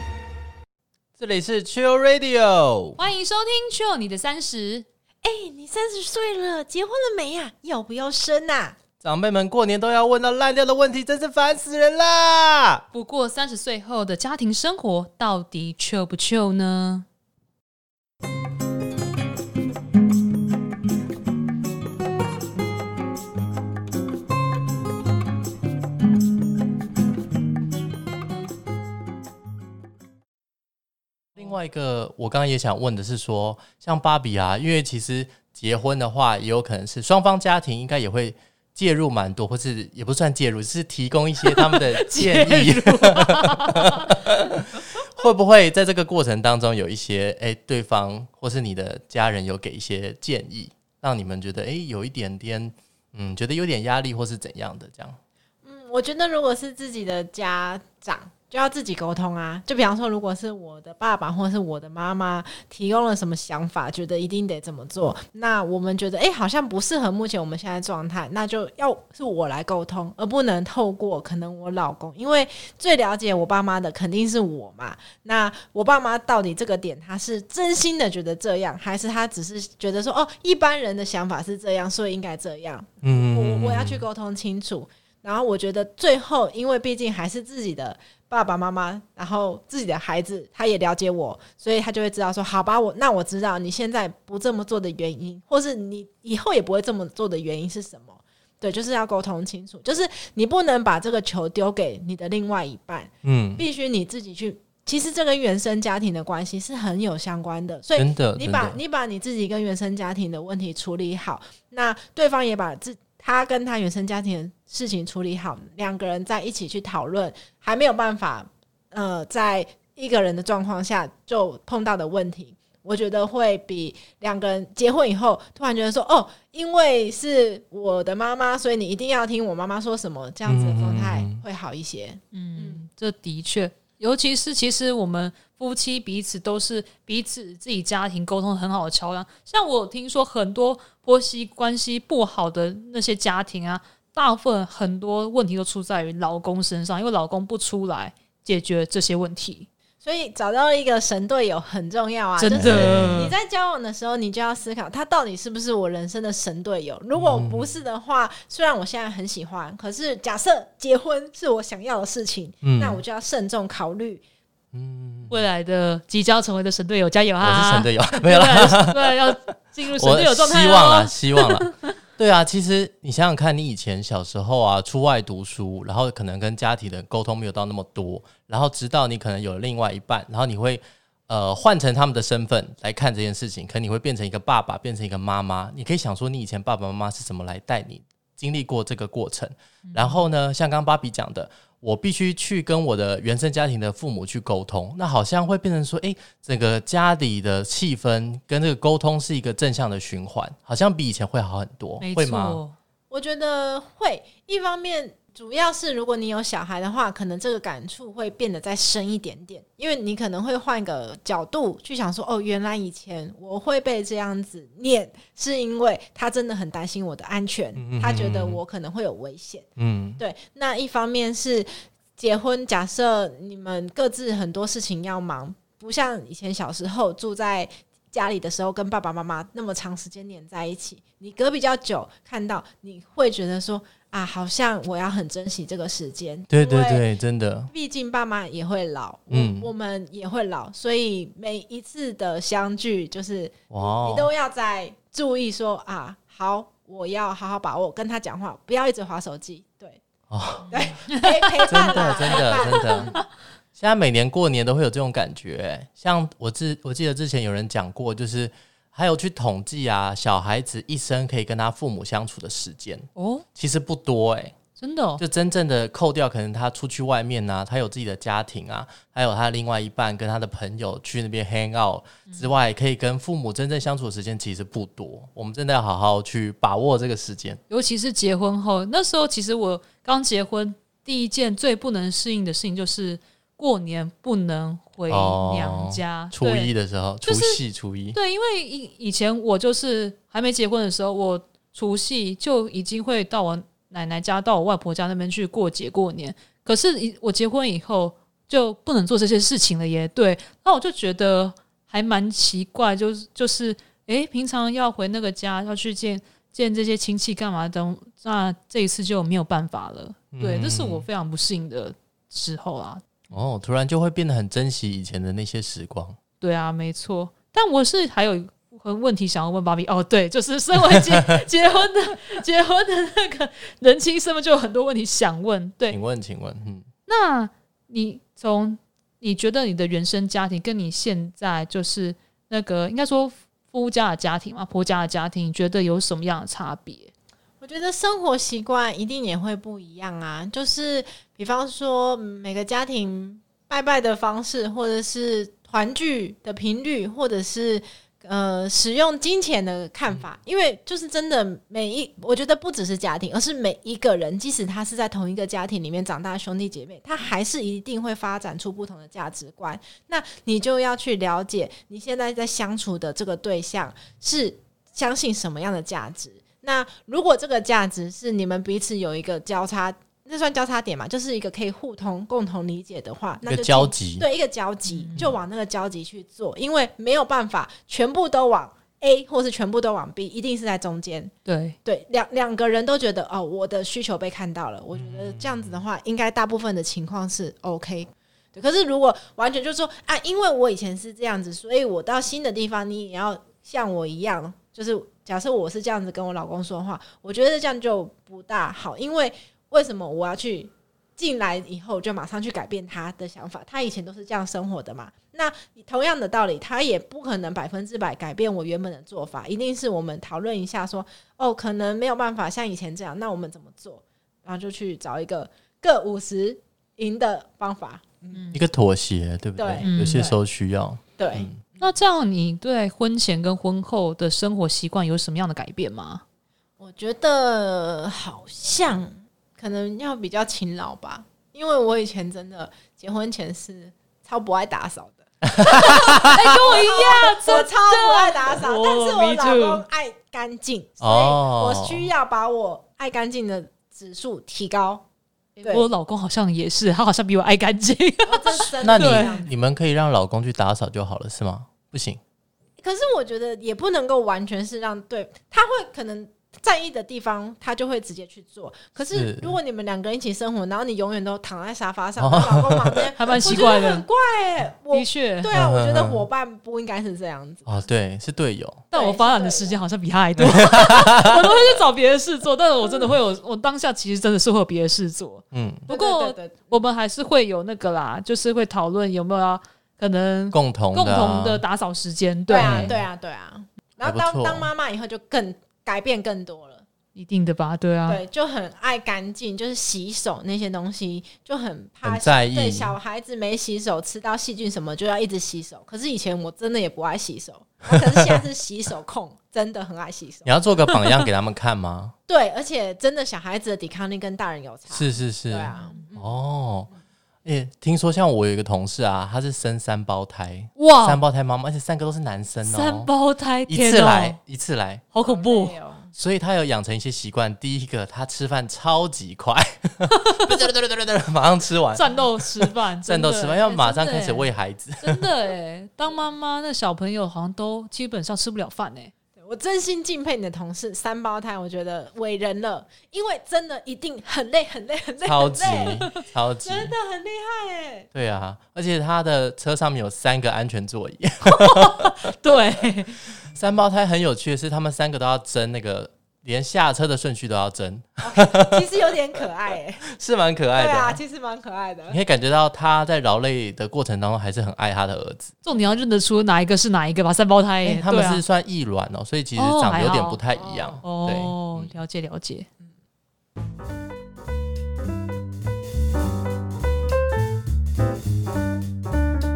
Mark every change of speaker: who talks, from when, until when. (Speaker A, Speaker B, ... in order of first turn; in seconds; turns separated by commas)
Speaker A: 1.2-3.0, Speaker B: 3.0-4.9, Speaker C: 5.2-8.8, Speaker A: 9.0-12.8, Speaker B: 12.9-17.1, Speaker A: 31.4-55.2, Speaker B: 41.4-44.1, Speaker C: 55.6-132.8, Speaker A: 83.0-84.0, Speaker A: 103.2-103.6, Speaker A: 108.0-108.8, Speaker A: 130.4-131.4, Speaker B: 132.3-149.7, Speaker C: 150.0-164.2, Speaker B: 152.4-153.3, Speaker A: 152.5-153.3, Speaker A: 157.2-157.8, Speaker A: 162.6-163.0, Speaker A: 164.7-165.4, Speaker B: 165.3-171.9, Speaker A: 167.4-169.4, Speaker A: 170.0-202.6, Speaker B: 189.9-190.2, Speaker B: 202.0-202.8, Speaker C: 203.1-219.7, Speaker A: 217.8-218.6, Speaker A: 219.8-220.2, Speaker C: 220.2-237.1, Speaker A: 236.5-237.7, Speaker C: 237.7-250.0, Speaker A: 239.3-239.7, Speaker A: 243.7-244.3, Speaker A: 250.3-250.7, Speaker C: 250.7-253.1, Speaker B: 251.1-253.2, Speaker A: 251.7-253.1, Speaker A: 253.8-264.6, Speaker B: 263.2-263.4, Speaker B: 264.8-265.2, Speaker A: 265.2-277.6, Speaker B: 272.3-272.5, Speaker B: 277.7-286.7, Speaker A: 285.1-288.2, Speaker B: 287.3-287.6, Speaker B: 288.1-313.0, Speaker A: 310.3-311.1, Speaker A: 313.3-316.2, Speaker B: 316.4-326.0, Speaker A: 325.9-326.9, Speaker B: 327.1-337.1, Speaker C: 337.6-381.3, Speaker A: 373.4-374.3, Speaker B: 374.9-375.3, Speaker B: 381.5-381.8, Speaker C: 381.9-418.4, Speaker A: 384.9-385.8, Speaker B: 418.3-418.6, Speaker A: 418.5-421.6, Speaker C: 419.6-419.9, Speaker B: 419.8-420.4, Speaker C: 421.2-421.8, Speaker B: 421.8-426.2, Speaker C: 426.8-445.0, Speaker A: 435.5-436.4, Speaker B: 436.2-439.8, Speaker A: 441.0-442.1, Speaker C: 445.6-445.9, Speaker B: 445.7-449.4, Speaker C: 448.3-449.5, Speaker A: 448.8-452.2, Speaker C: 452.8-467.8, Speaker A: 459.1-459.6, Speaker A: 462.2-463.1, Speaker B: 463.2-464.1, Speaker B: 464.9-465.5, Speaker A: 465.5-466.2, Speaker A: 467.7-468.9, Speaker B: 468.9-482.9, Speaker C: 468.9-469.8, Speaker A: 470.4-471.4, Speaker A: 475.5-475.9, Speaker C: 475.9-476.7, Speaker A: 480.5-481.6, Speaker C: 482.5-486.8, Speaker A: 482.6-483.0, Speaker A: 484.0-484.7, Speaker B: 487.1-488.2, Speaker C: 488.1-500.6, Speaker A: 492.0-493.0, Speaker A: 497.9-498.4, Speaker A: 500.4-502.1, Speaker C: 502.3-506.4, Speaker A: 504.9-506.9, Speaker B: 505.7-506.0, Speaker A: 507.4-513.1, Speaker B: 510.8-511.2, Speaker B: 512.6-514.4, Speaker A: 513.7-515.0, Speaker B: 515.1-515.8, Speaker C: 515.2-516.1, Speaker A: 516.1-525.3, Speaker B: 521.9-529.1, Speaker C: 529.4-536.1, Speaker A: 535.2-536.9, Speaker C: 536.6-538.1, Speaker A: 538.1-542.2, Speaker B: 541.4-543.2, Speaker A: 543.4-548.9, Speaker C: 548.2-550.1, Speaker A: 550.0-551.2, Speaker C: 550.8-552.2, Speaker A: 552.1-555.5, Speaker B: 555.6-558.4, Speaker A: 557.8-561.9, Speaker B: 559.6-560.4, Speaker C: 560.5-561.0, Speaker B: 561.0-562.7